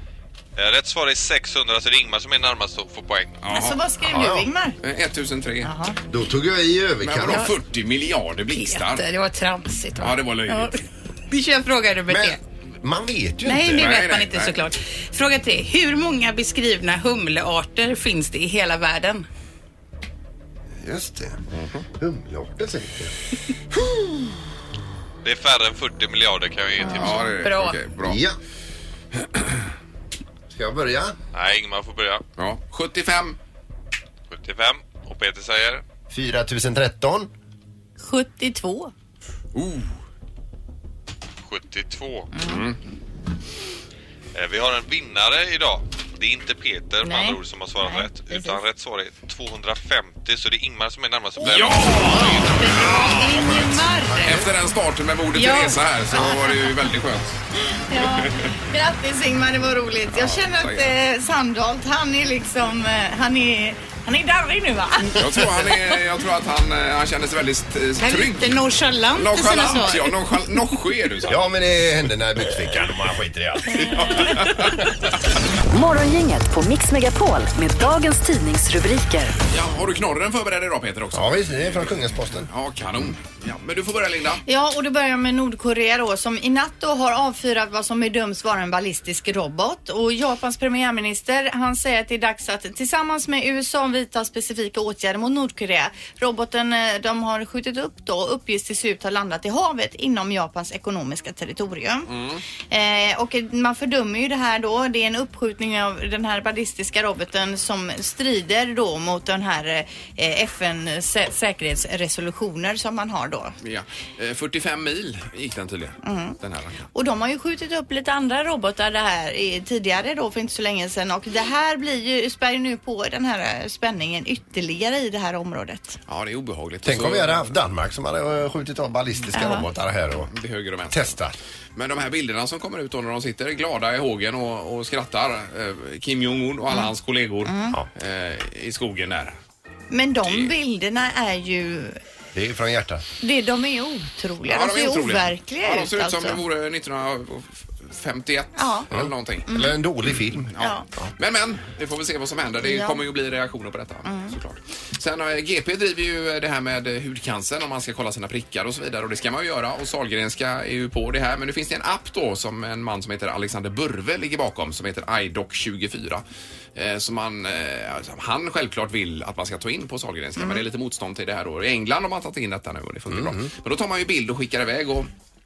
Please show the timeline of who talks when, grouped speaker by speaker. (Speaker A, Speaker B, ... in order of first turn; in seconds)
Speaker A: 0.6-3.4, 25.2-27.3, 31.3-32.2, 34.3-35.8, 41.4-42.3, 44.3-52.2
Speaker B: 3.4-3.8, 4.8-5.7, 7.0-9.0, 10.0-10.8, 13.7-14.6, 21.5-21.8, 26.9-28.2, 29.2-29.6, 32.4-33.4, 39.5-39.9, 42.4-42.8, 51.4-53.6, 54.2-57.4, 58.1-58.5, 60.1-60.9, 65.1-68.6, 69.1-71.5, 73.9-74.8, 79.5-84.4, 102.1-102.4, 113.6-116.9, 126.1-127.5, 130.3-131.2, 131.7-139.4, 140.2-140.5, 144.5-149.5, 150.5-166.2, 166.7-175.1
Speaker C: 3.5-4.8, 5.6-6.0, 38.0-38.9, 42.3-42.6, 47.0-48.6, 51.9-54.5, 55.4-56.5, 57.7-65.2, 73.9-74.2, 84.5-102.1, 102.7-113.5, 116.0-116.3, 116.9-126.0, 129.3-129.6, 137.4-137.8, 139.9-142.0, 143.2-146.4, 148.6-148.9, 149.5-149.7, 150.6-150.8, 152.6-153.0, 154.0-154.3, 170.4-170.6
Speaker D: 4.1-4.5, 6.1-7.5, 12.1-13.9, 20.8-21.4, 22.0-23.1, 28.0-28.4, 30.5-31.2, 36.1-37.3, 71.3-74.5, 81.1-82.5, 126.8-130.3, 130.9-131.4, 142.3-143.0, 148.9-151.1, 173.1-173.5
Speaker E: 8.5-10.7, 11.3-12.4, 13.4-19.2, 27.4-27.8, 52.7-54.1, 68.0-70.2
Speaker F: 75.7-79.3